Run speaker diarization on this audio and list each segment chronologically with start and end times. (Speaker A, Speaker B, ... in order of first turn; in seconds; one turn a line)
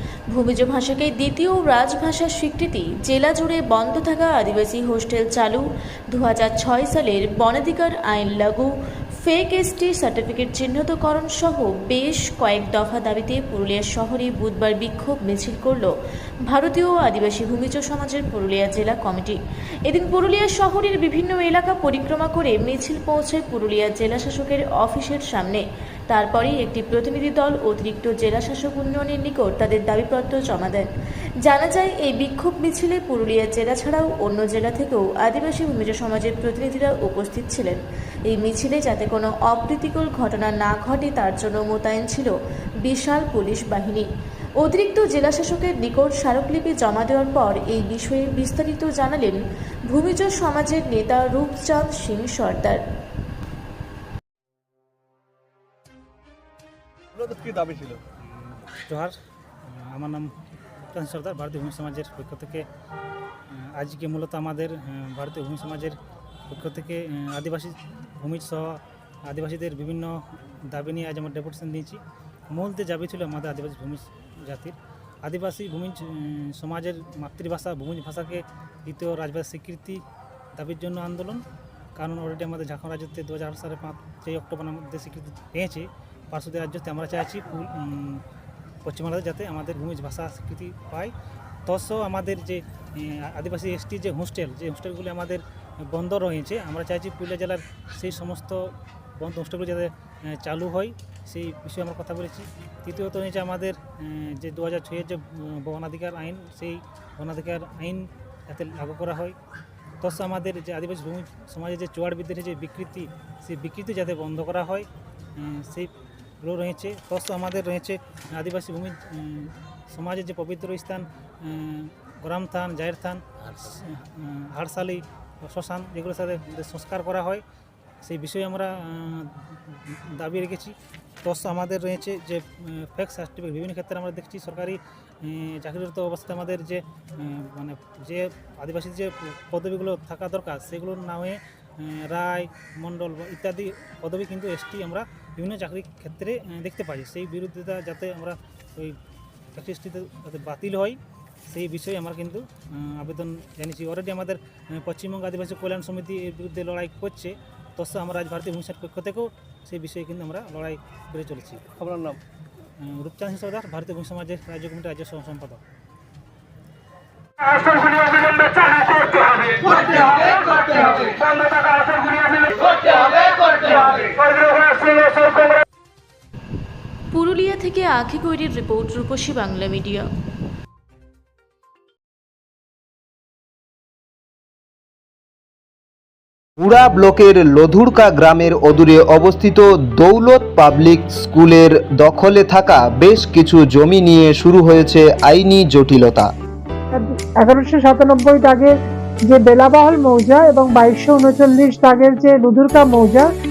Speaker A: 0.3-15.9
Speaker A: 16.5-30.9
Speaker A: 31.4-42.3
Speaker A: 42.8-44.1
Speaker A: 44.6-52.8
Speaker B: 57.2-58.0
Speaker C: 58.3-59.1
Speaker C: 59.7-60.3
Speaker C: 60.9-62.6
Speaker C: 63.5-66.0
Speaker C: 66.5-72.0
Speaker C: 72.5-80.0
Speaker C: 80.5-81.4
Speaker C: 82.0-88.2
Speaker C: 88.8-91.1
Speaker C: 91.7-109.3
Speaker C: 110.0-115.9
Speaker C: 116.4-127.4
Speaker C: 128.0-149.0
Speaker C: 149.5-151.0
Speaker C: 151.5-161.6
Speaker B: 161.8-162.2
Speaker C: 162.8-165.6
Speaker C: 167.5-169.6
Speaker B: 169.6-171.1
Speaker C: 170.9-171.4
Speaker C: 172.0-172.7
Speaker C: 173.6-174.2
Speaker A: 177.1-180.1
Speaker D: 186.6-196.3
Speaker E: 196.9-203.3